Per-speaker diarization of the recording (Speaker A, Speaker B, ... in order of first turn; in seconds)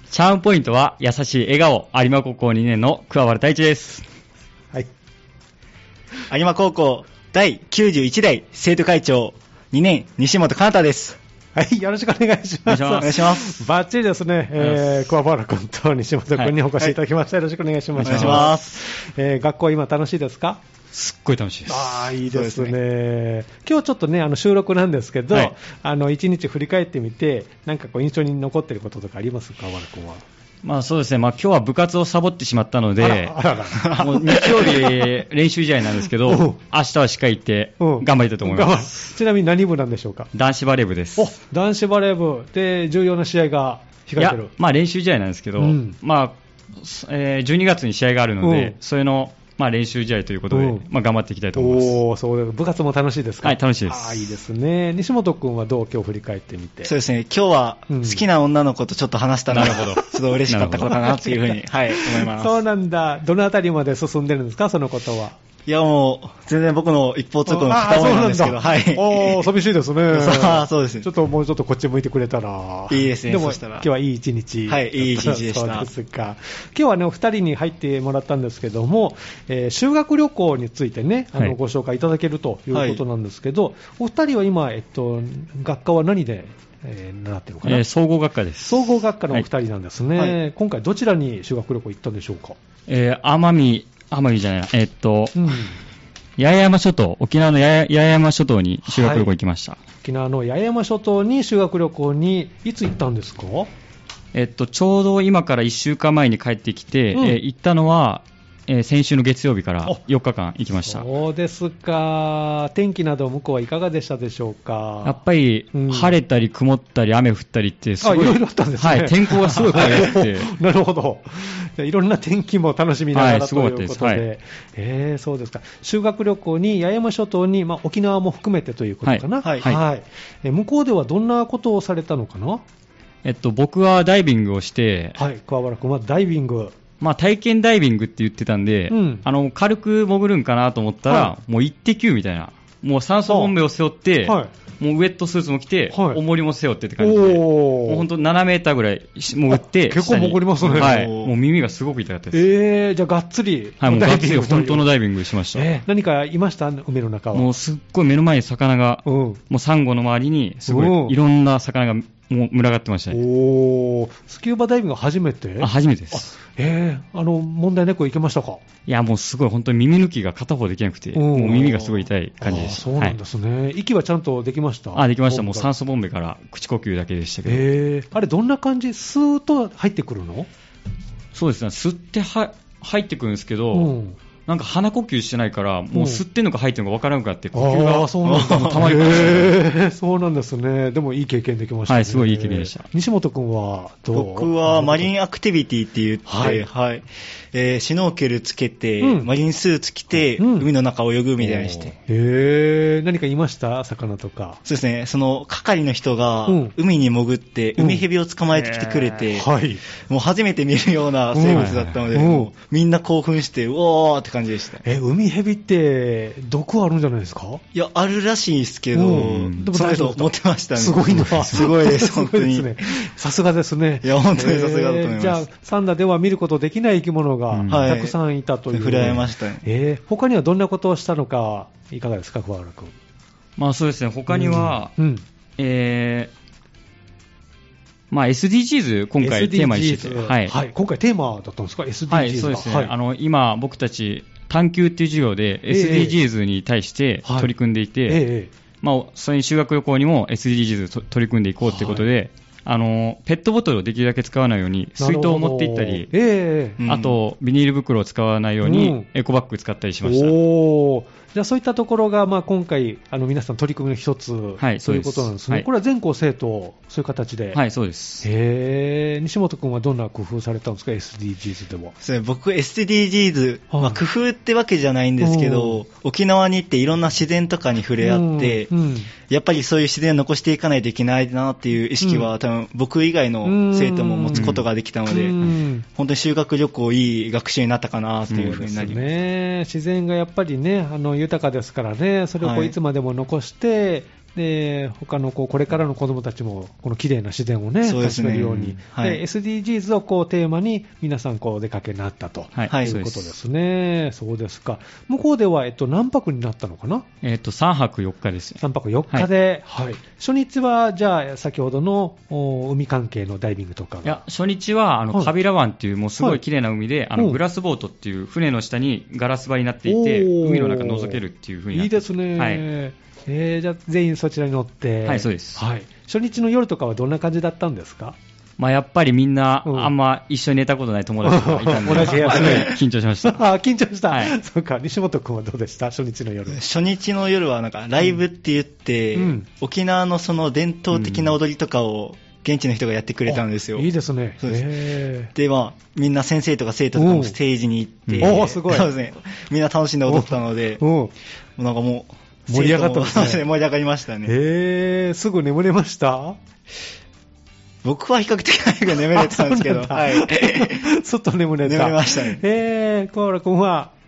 Speaker A: 0.1-4.0, 12.7-13.2, 14.6-15.0, 18.0-18.5, 20.9-22.0, 30.6-39.1, 40.3-41.3, 44.2-52.0, 53.4-54.2, 59.5-61.1, 87.6-89.5, 92.9-95.5, 96.4-99.8, 104.3-111.0, 115.0-120.5, 123.1-124.2, 129.0-129.8, 133.2-135.2, 137.0-152.4, 153.8-155.7, 157.3-163.2, 165.6-166.3, 168.9-173.2, 174.9-177.7, 181.3-183.9, 184.5-189.6, 191.9-192.8, 201.4-201.9, 208.5-209.3, 211.4-212.0, 219.1-219.7, 227.5-227.9, 233.6-234.9, 235.6-236.3, 238.1-240.6, 242.1-248.2, 248.8-256.1, 256.9-260.4, 264.6-265.6, 267.5-268.3, 284.3-284.6, 288.3-288.6, 302.6-303.2, 307.2-309.3, 314.0-322.6, 325.0-325.6, 328.6-333.5, 334.1-334.4, 340.9-341.3, 348.1-348.4
Speaker B: 6.3-11.2, 13.0-13.6, 18.0-18.8, 22.3-22.7, 33.8-34.6, 56.8-62.6, 65.7-69.5, 70.1-71.1, 72.9-73.9, 74.7-75.9, 82.7-83.0, 150.6-151.3, 171.6-172.1, 188.2-189.4, 194.1-201.9, 204.7-209.5, 210.0-214.8, 217.7-222.7, 224.0-225.4, 227.7-228.1, 228.7-229.6, 256.8-257.2, 272.0-278.7, 279.2-285.4, 285.9-289.1, 292.4-292.7, 297.8-299.2, 302.7-303.0, 331.9-332.7, 336.5-343.9, 344.4-350.8, 351.6-354.3, 357.8-360.9, 361.6-362.4
Speaker C: 11.5-20.6, 21.7-30.2, 33.0-35.1, 36.0-36.6, 37.8-40.3, 41.1-44.5, 45.6-46.0, 48.4-48.8, 50.5-50.9, 51.5-56.9, 57.9-58.2, 59.6-65.4, 67.5-87.8, 88.7-92.6, 95.3-95.8, 98.8-99.3, 100.0-103.7, 107.1-107.4, 110.8-115.2, 115.7-116.2, 118.0-132.6, 135.2-136.7, 138.9-139.2, 141.1-141.3, 143.3-143.5, 144.2-144.5, 145.9-146.2, 147.0-148.1, 149.5-151.1, 152.3-154.9, 155.5-157.5, 159.1-159.4, 160.7-161.2, 163.1-168.6, 171.1-171.8, 172.4-175.7, 177.4-180.5, 183.7-184.2, 185.9-186.2, 187.5-195.1, 196.3-196.7, 199.0-199.3, 200.1-200.7, 202.1-204.6, 206.5-206.7, 207.8-208.1, 209.3-209.8, 211.3-212.5, 214.8-217.6, 218.9-232.9, 234.3-235.2, 239.2-242.9, 245.7-246.2, 247.2-247.5, 248.1-248.5, 251.6-252.0, 255.0-256.8, 258.6-259.1, 260.0-267.6, 268.2-271.9, 273.7-274.0, 275.2-275.8, 278.0-279.1, 282.0-282.3, 283.4-285.8, 288.3-307.1, 308.6-314.2, 317.1-317.4, 319.9-328.2, 329.6-329.9, 331.2-336.6, 339.1-339.5, 343.2-345.3, 346.9-347.4, 348.2-348.9, 350.1-351.1, 352.5-353.4, 354.2-356.4, 359.1-363.9